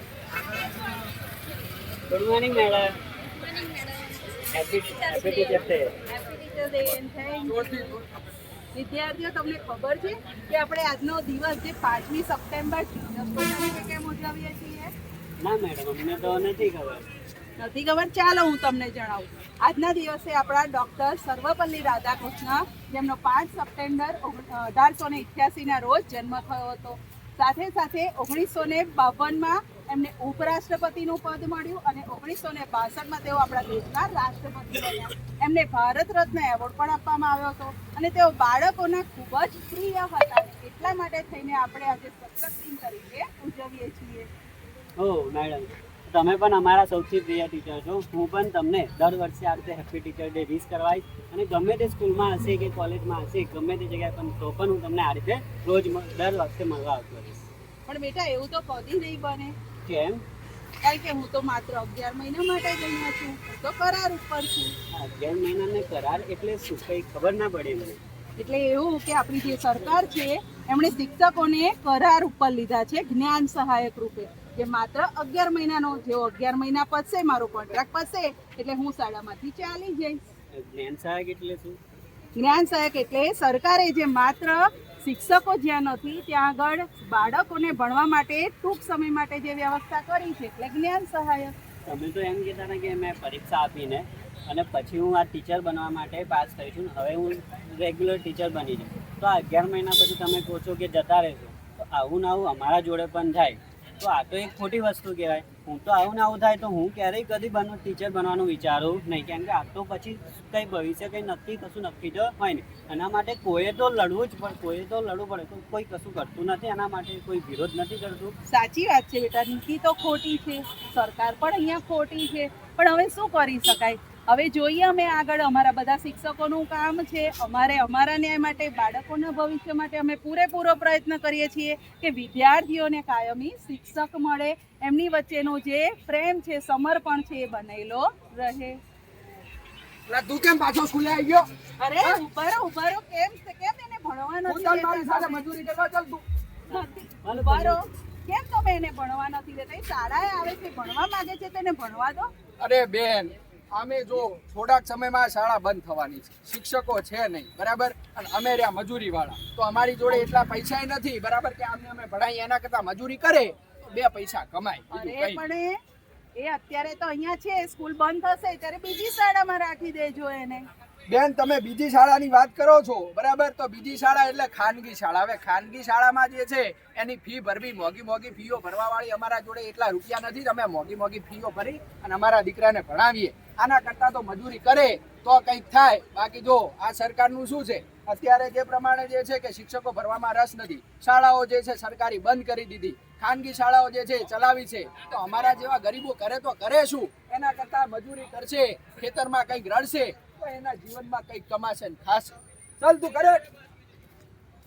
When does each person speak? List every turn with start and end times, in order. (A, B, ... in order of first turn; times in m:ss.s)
0:02.1-0:02.9 A
0:03.4-0:04.2 B
0:04.5-0:06.0 A
0:05.1-0:08.0 B
0:07.4-0:08.0 C
0:08.7-0:14.9 B
0:15.4-0:17.1 A
0:17.6-0:44.3 B
0:45.0-0:57.4 A
0:57.9-0:59.5 B
0:59.8-1:00.2 A
1:00.8-1:04.7 B
1:04.9-1:08.0 A
1:08.4-1:20.2 B
1:20.5-1:21.8 A
1:22.4-1:31.5 B
1:31.8-1:58.3 A
1:58.5-2:18.8 B
2:20.1-2:21.5 C
2:21.8-2:25.5 B
2:24.5-2:26.2 C
2:26.7-2:32.3 B
2:26.7-2:27.8 A
2:32.6-2:45.4 C
2:44.9-2:45.8 B
2:46.4-2:50.6 B
2:51.1-3:23.4 C